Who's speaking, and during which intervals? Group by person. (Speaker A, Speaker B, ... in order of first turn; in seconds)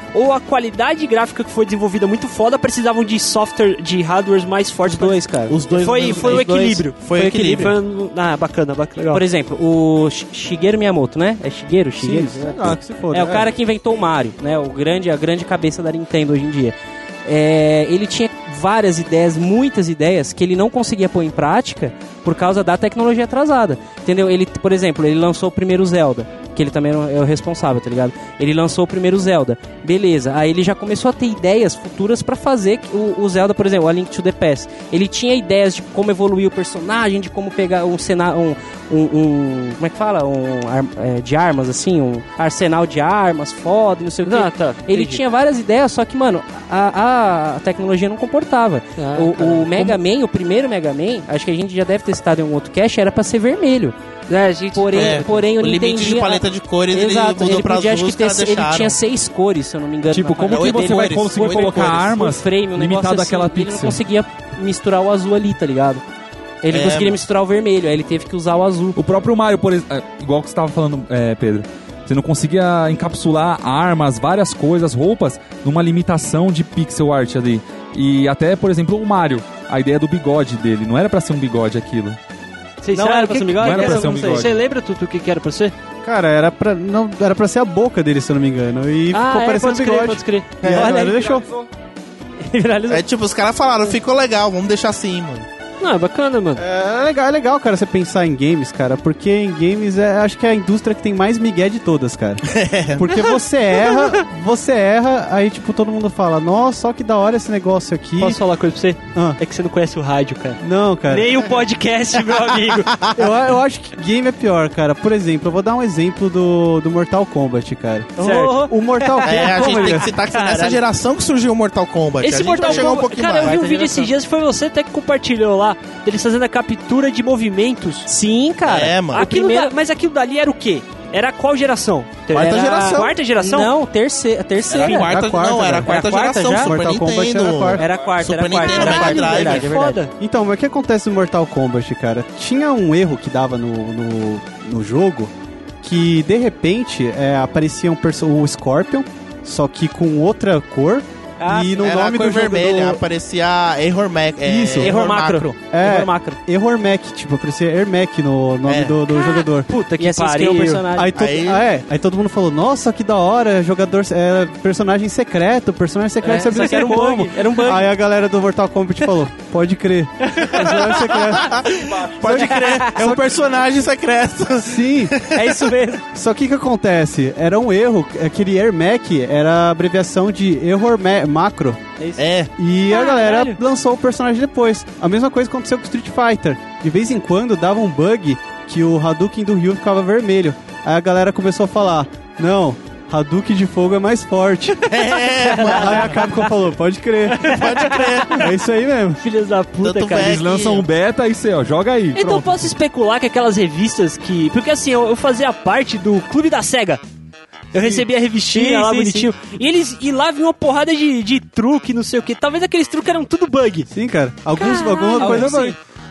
Speaker A: 0.1-9.2, 44.2-45.2, 49.0-50.0, 54.3-55.4, 82.8-85.8, 89.1-90.5, 95.8-96.6, 108.2-112.9, 118.2-118.6, 122.2-128.1, 129.1-133.7, 138.6-140.1, 159.2-160.9, 197.5-198.2, 199.2-200.4, 202.2-207.0, 207.7-213.9, 214.6-215.6
Speaker B: 4.8-7.7, 9.1-54.0, 54.7-66.0, 66.6-69.0, 82.9-84.5, 90.7-91.4, 92.4-93.0, 118.2-120.8, 122.5-124.1, 128.1-129.7, 132.4-135.2, 135.8-136.8, 137.8-140.0, 151.4-151.9, 154.8-156.4, 160.0-161.2, 166.2-167.9, 170.4-171.0, 172.6-172.9, 175.3-176.0, 182.9-183.6, 208.5-209.3, 215.2-215.8
Speaker C: 5.5-7.7, 54.9-59.0, 60.5-62.2, 66.7-67.2, 90.6-91.0, 92.9-95.5, 102.5-103.1, 112.9-113.2, 119.2-123.6, 128.7-129.2, 132.3-133.2, 134.7-139.7, 151.8-155.5, 158.7-159.0, 161.1-161.6, 171.3-175.7, 182.2-182.5, 194.8-196.3, 197.4-198.5, 199.8-200.9
Speaker D: 12.0-13.5, 86.0-91.5, 96.6-108.4, 110.6-111.3, 113.2-120.1, 134.8-137.9, 140.2-153.0, 154.4-155.0, 155.7-159.7, 160.9-171.7, 172.2-173.2, 174.6-175.2, 176.1-181.9, 182.6-194.9, 195.6-199.2, 213.9-215.8
Speaker E: 60.1-64.0, 69.0-82.2, 83.6-84.6, 200.1-202.7